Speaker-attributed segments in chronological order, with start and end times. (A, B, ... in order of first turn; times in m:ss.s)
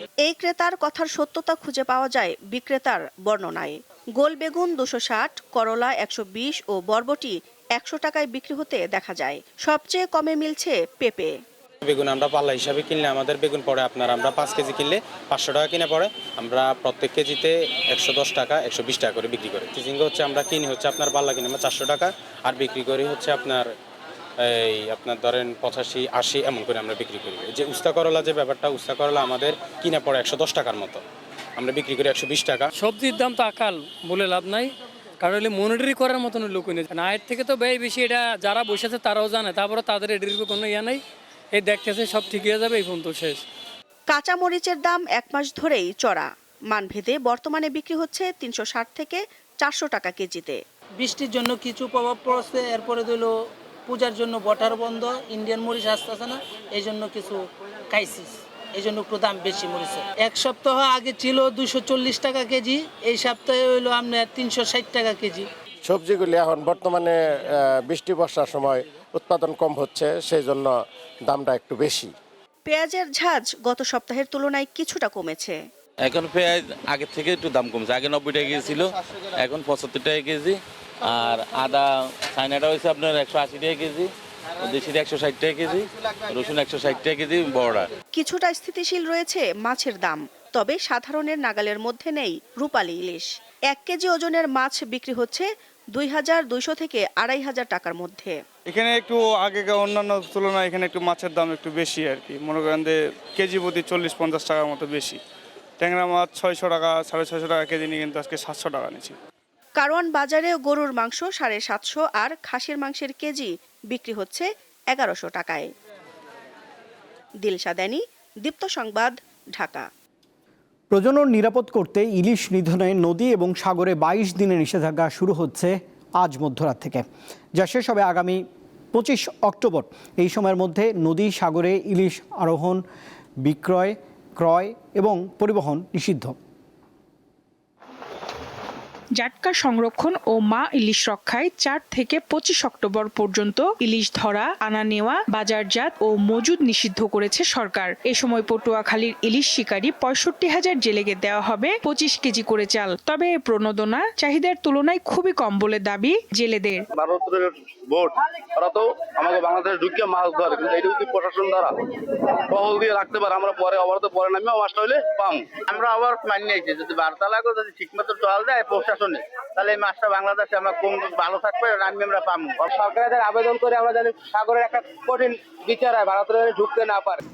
0:00.2-0:11.3 A
0:11.8-0:23.7 B
0:24.4-0:31.0 B
0:31.6-0:32.7 B
0:32.8-0:34.7 C
0:35.2-0:41.0 C
0:41.6-0:43.4 C
0:44.1-0:50.6 A
0:51.0-0:53.3 D
0:53.9-1:05.4 D
1:05.8-1:10.8 E
1:11.3-1:12.1 E
1:12.6-1:15.6 A
1:16.0-1:24.1 F
1:24.6-1:27.9 F
1:28.1-1:38.4 A
1:38.7-1:45.2 G
1:45.8-1:49.2 G
1:49.8-1:55.7 A
1:57.4-1:59.9 A
2:00.9-2:07.0 H
2:07.6-2:12.8 H
2:13.4-2:16.4 H
2:19.2-2:36.8 I
2:37.0-2:41.7 J
2:42.5-2:57.2 J